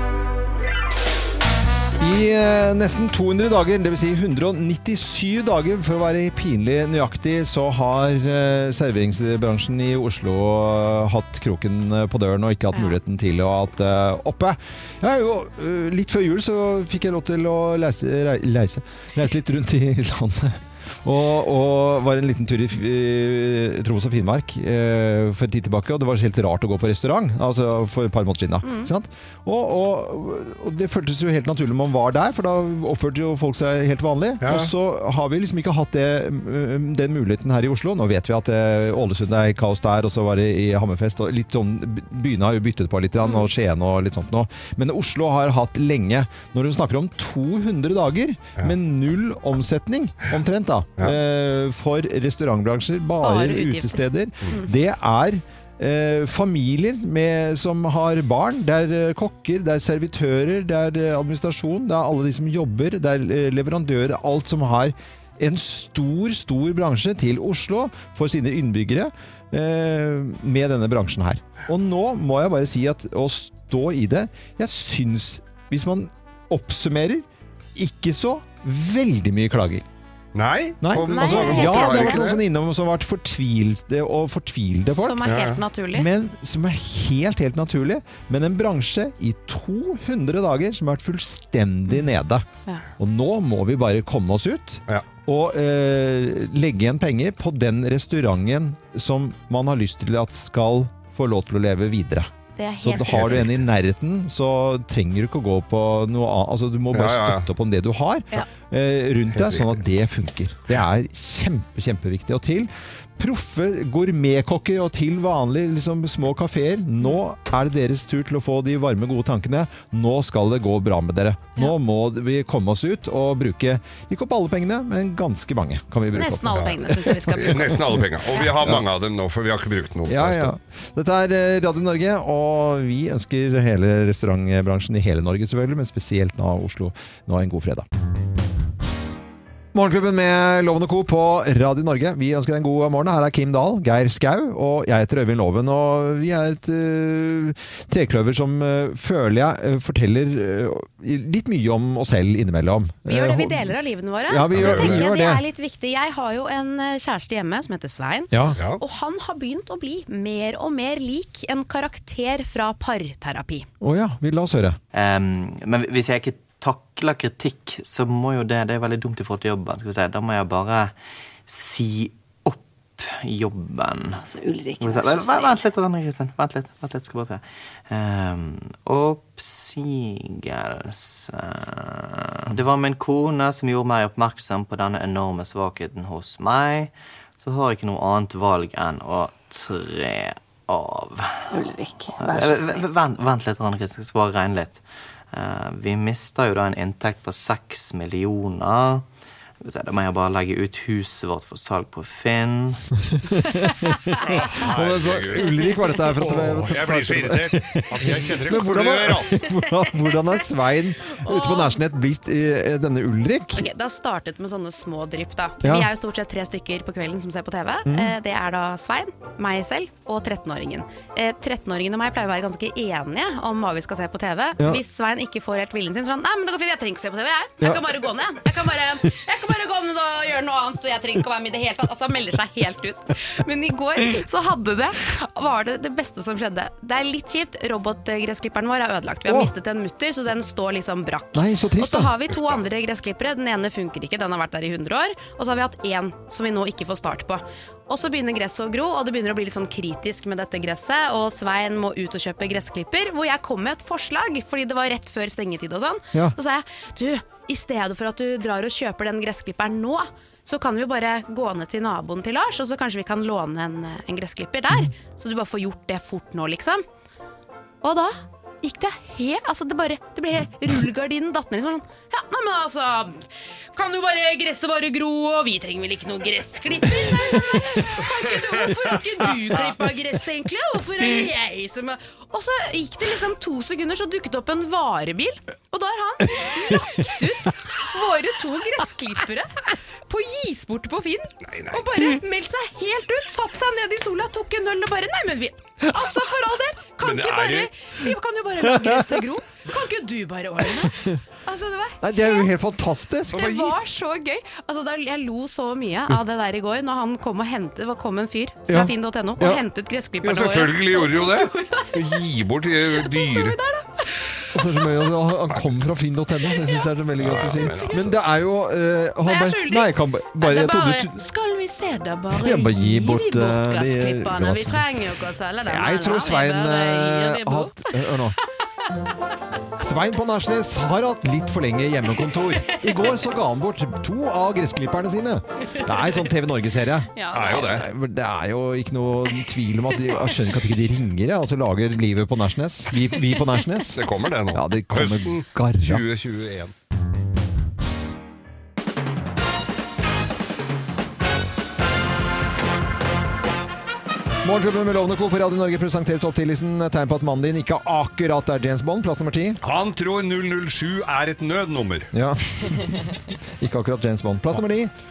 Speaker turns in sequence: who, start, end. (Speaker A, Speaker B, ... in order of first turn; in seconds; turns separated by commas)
Speaker A: 2.0-79.8, Speaker B: 12.7-13.0, Speaker B: 28.6-28.9, Speaker C: 34.4-34.7, Speaker B: 53.2-54.7, Speaker C: 80.3-82.4, Speaker A: 80.8-85.3, Speaker B: 81.1-82.2, Speaker B: 84.9-86.1, Speaker C: 85.3-85.6, Speaker A: 85.9-92.5, Speaker A: 93.0-128.0, Speaker B: 102.6-103.5, Speaker C: 103.1-103.5, Speaker C: 106.9-107.5, Speaker C: 109.3-109.7, Speaker B: 126.1-127.9, Speaker C: 127.4-130.5, Speaker A: 130.1-137.9, Speaker A: 139.7-153.8, Speaker B: 153.1-163.7, Speaker A: 154.3-155.4, Speaker C: 154.5-155.1, Speaker A: 158.3-158.6, Speaker C: 158.6-158.8, Speaker A: 163.8-164.8, Speaker D: 164.9-174.3, Speaker E: 174.2-175.5, Speaker D: 174.8-199.1, Speaker E: 191.6-192.5, Speaker D: 199.6-202.8, Speaker A: 203.3-213.7, Speaker C: 204.2-209.4, Speaker B: 211.1-211.8, Speaker B: 213.5-266.9, Speaker A: 215.6-215.9, Speaker A: 217.9-218.1, Speaker A: 241.3-242.1, Speaker B: 267.8-302.5, Speaker A: 286.5-287.1, Speaker C: 291.4-291.8, Speaker C: 297.0-297.7, Speaker A: 302.0-303.5, Speaker B: 303.3-312.2, Speaker C: 303.3-303.8, Speaker A: 308.7-309.6, Speaker C: 310.2-313.6, Speaker B: 312.8-314.9, Speaker A: 314.5-321.2, Speaker C: 317.2-318.2, Speaker B: 319.2-328.5, Speaker A: 322.4-324.9, Speaker A: 325.7-328.4, Speaker A: 329.8-346.1, Speaker B: 332.5-333.2, Speaker B: 335.6-336.1, Speaker B: 337.1-337.7, Speaker C: 337.3-337.9, Speaker B: 339.4-340.4, Speaker C: 344.0-346.7, Speaker A: 354.4-359.6, Speaker C: 359.6-362.1, Speaker A: 362.1-364.9